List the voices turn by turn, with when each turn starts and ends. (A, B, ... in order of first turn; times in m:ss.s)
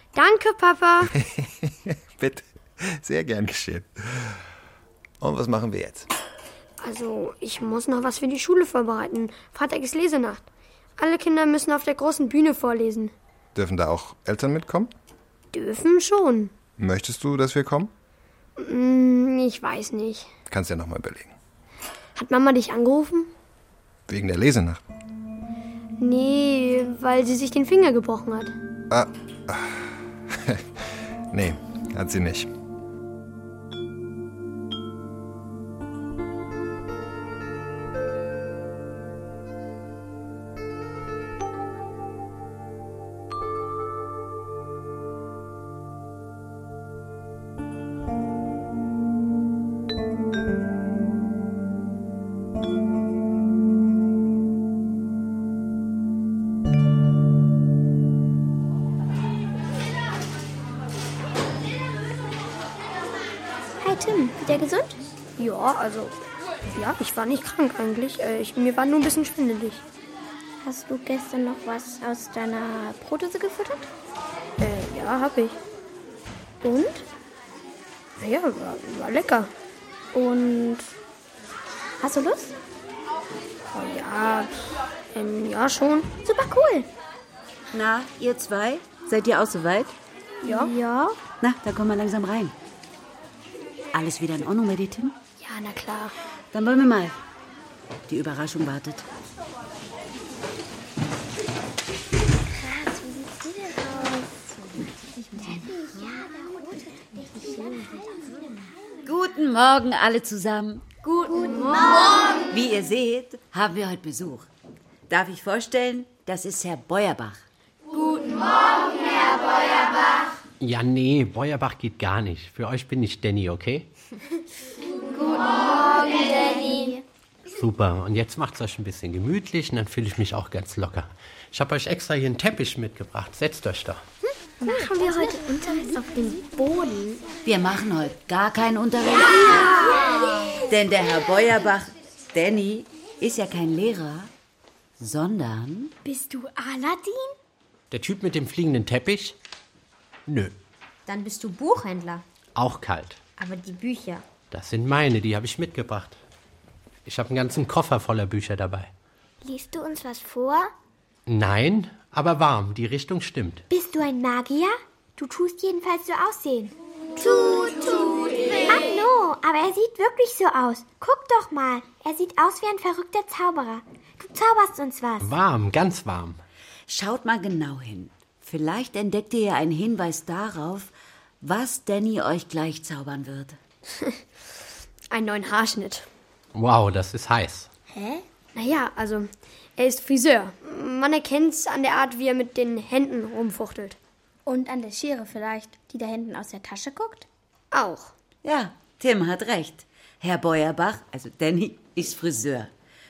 0:00.1-0:01.1 A
0:01.1-0:04.4 B
0:05.2-0:06.1 B
0:06.8-0:10.5 A
0:11.0-0:13.1 A
0:13.6-0:14.9 B
0:15.5-0:16.5 A
0:16.8-0:17.9 B
0:18.6-0:20.3 A
0:20.5-0:21.4 B
0:22.2-0:23.3 A
0:24.1-0:24.8 B
0:26.0-0:28.6 A
0:28.9-0:30.7 B
0:31.3-0:32.5 B
1:03.8-1:05.0 C
1:05.4-1:06.2 A
1:06.7-1:09.8 A
1:10.6-1:13.9 C
1:14.6-1:15.6 A
1:16.6-1:17.0 C
1:18.2-1:19.5 A
1:20.1-1:20.9 C
1:22.0-1:22.6 C
1:23.7-1:26.1 A
1:26.3-1:26.9 C
1:27.7-1:30.0 D
1:30.4-1:30.7 A
1:30.4-1:31.2 C
1:31.4-1:32.6 D
1:33.9-1:35.2 D
1:35.4-1:36.2 A
1:36.5-1:37.2 D
1:38.1-1:39.0 D
1:42.6-1:44.5 C
1:46.6-1:47.9 C
1:49.0-1:50.9 D
1:52.5-1:54.5 D
1:55.1-1:57.4 D
2:00.6-2:03.9 E
2:07.5-2:14.0 E
2:14.6-2:17.2 C
2:17.5-2:19.9 D
2:20.7-2:24.3 D
2:25.0-2:25.9 D
2:26.0-2:27.3 F
2:27.9-2:29.4 E
2:30.3-2:30.5 E
2:31.1-2:32.2 G
2:32.6-2:33.2 E
2:33.4-2:34.2 G
2:34.5-2:36.2 E
2:37.1-2:38.9 E
2:39.4-2:40.7 F
2:41.3-2:43.6 E
2:43.7-2:55.3 F
2:55.2-2:56.4 E
2:56.9-3:03.6 D
3:05.1-3:06.1 A
3:06.5-3:07.7 E
3:08.6-3:14.0 A
3:14.5-3:17.3 C
3:17.7-3:18.1 A
3:18.4-3:22.7 D